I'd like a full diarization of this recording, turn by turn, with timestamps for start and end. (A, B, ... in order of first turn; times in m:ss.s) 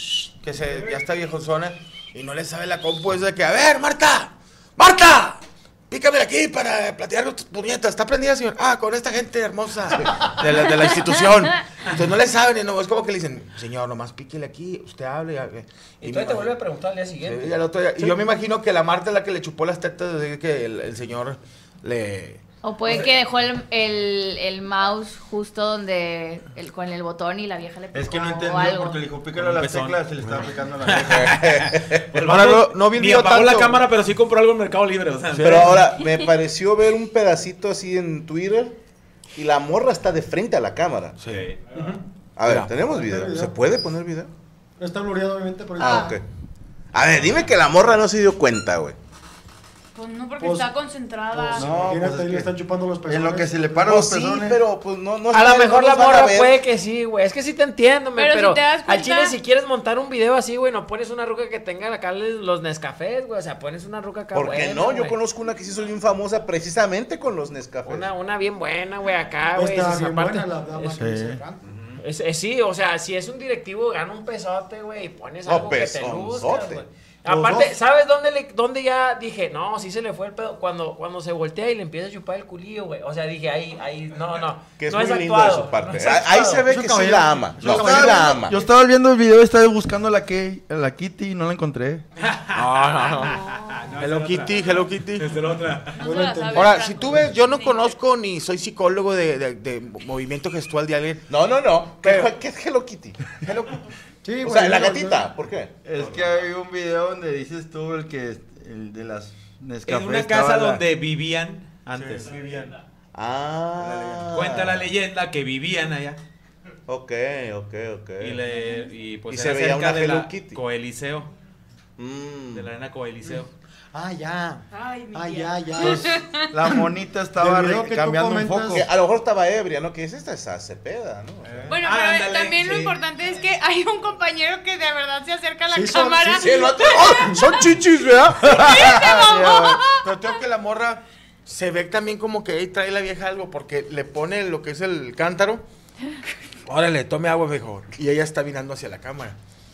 0:00.2-0:16.6 A
0:16.0-0:18.1 B
0:17.2-0:23.1 A
0:22.6-0:29.0 C
0:27.9-0:31.4 D
0:29.3-0:35.8 E
0:30.9-0:32.2 F
0:32.1-0:33.9 A
0:35.3-0:35.8 A
0:35.4-0:38.8 F
0:39.4-0:41.2 F
0:41.2-0:41.5 A
0:41.3-0:41.7 E
0:41.7-0:42.0 G
0:42.4-0:44.3 F
0:42.4-0:42.7 A
0:42.8-0:43.6 G
0:44.8-0:46.2 G
0:45.8-0:46.2 F
0:46.9-0:49.0 F
0:49.9-0:51.7 H
0:50.4-0:50.7 G
0:51.3-0:53.8 G
0:51.6-0:52.5 D
0:51.6-0:52.0 F
0:53.0-0:54.6 D
0:53.8-0:56.6 F
0:55.3-1:05.2 B
0:58.2-0:59.4 H
1:04.3-1:08.1 F
1:07.8-1:11.0 B
1:09.5-1:11.6 G
1:11.0-1:11.4 D
1:11.6-1:12.0 E
1:12.0-1:26.7 B
1:15.4-1:16.8 F
1:17.3-1:17.8 G
1:24.8-1:28.6 F
1:26.6-1:28.4 G
1:27.6-1:32.0 D
1:32.2-1:36.0 E
1:32.5-1:33.4 A
1:34.0-1:35.3 A
1:35.9-1:38.0 H
1:36.0-1:36.7 G
1:36.5-1:41.2 A
1:41.3-1:43.2 F
1:42.0-1:42.3 A
1:43.4-1:43.8 A
1:44.2-1:45.3 G
1:44.4-1:45.7 F
1:45.8-1:50.8 D
1:46.0-1:46.3 E
1:49.8-1:52.4 E
1:52.0-1:52.7 D
1:53.1-1:54.9 F
1:53.8-1:54.4 D
1:54.3-1:56.2 E
1:56.9-1:58.4 F
1:58.2-2:01.3 E
1:59.3-2:00.6 F
2:02.0-2:02.7 F
2:02.5-2:03.5 E
2:03.9-2:08.9 G
2:04.7-2:06.6 H
2:05.8-2:08.8 D
2:08.7-2:11.7 F
2:11.4-2:13.0 E
2:11.7-2:17.7 H
2:15.7-2:17.3 G
2:16.4-2:19.5 F
2:18.5-2:20.1 H
2:19.0-2:25.6 A
2:26.6-2:29.4 A